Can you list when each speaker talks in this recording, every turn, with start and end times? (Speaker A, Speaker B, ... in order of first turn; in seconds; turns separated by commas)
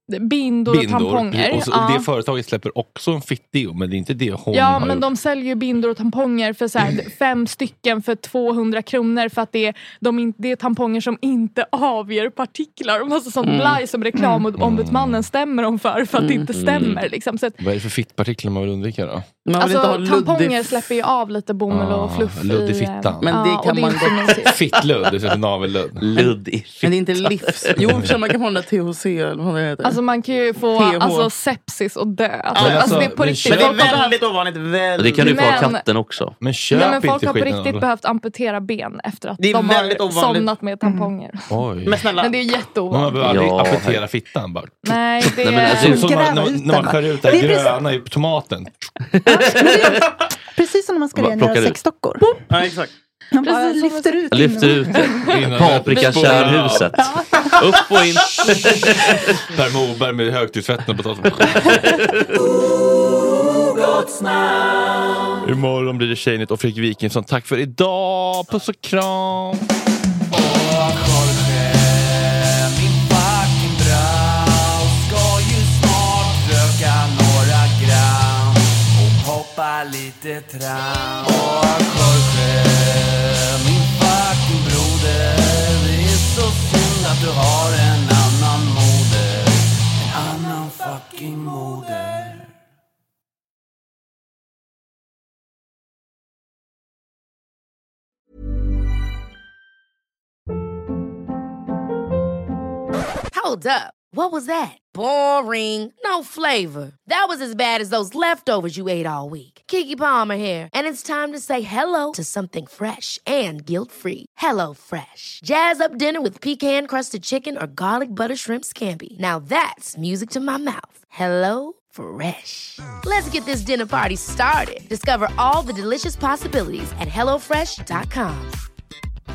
Speaker A: 0.1-2.1, Speaker B: 0.7-5.1, Speaker A: 4.5-17.6, Speaker C: 13.4-13.8, Speaker B: 14.5-15.3, Speaker C: 16.1-16.5, Speaker D: 16.5-17.1, Speaker B: 17.6-19.3, Speaker C: 19.5-20.8, Speaker A: 19.6-24.6, Speaker B: 21.7-23.3, Speaker C: 23.2-24.8, Speaker B: 24.4-26.1, Speaker D: 26.0-27.8, Speaker C: 26.1-30.0, Speaker B: 27.8-28.1, Speaker A: 29.8-34.2, Speaker C: 30.7-31.3, Speaker B: 32.5-34.1, Speaker C: 32.5-35.7, Speaker D: 35.0-36.4, Speaker A: 35.2-35.9, Speaker B: 36.4-37.9, Speaker A: 36.7-41.6, Speaker C: 39.4-40.5, Speaker E: 40.8-41.1, Speaker B: 41.5-42.0, Speaker C: 41.9-42.5, Speaker A: 42.1-43.3, Speaker B: 42.9-48.7, Speaker D: 43.2-44.0, Speaker A: 44.8-46.1, Speaker D: 45.3-46.1, Speaker E: 45.7-47.8, Speaker D: 49.1-50.1, Speaker E: 49.3-52.4, Speaker D: 51.1-51.8, Speaker C: 52.5-52.9, Speaker E: 53.3-55.3, Speaker A: 53.4-57.3, Speaker D: 54.3-59.4, Speaker B: 55.2-57.1, Speaker B: 59.2-62.1, Speaker D: 61.6-62.0, Speaker F: 62.8-65.3, Speaker B: 65.4-69.7, Speaker F: 70.3-92.5, Speaker G: 103.3-128.6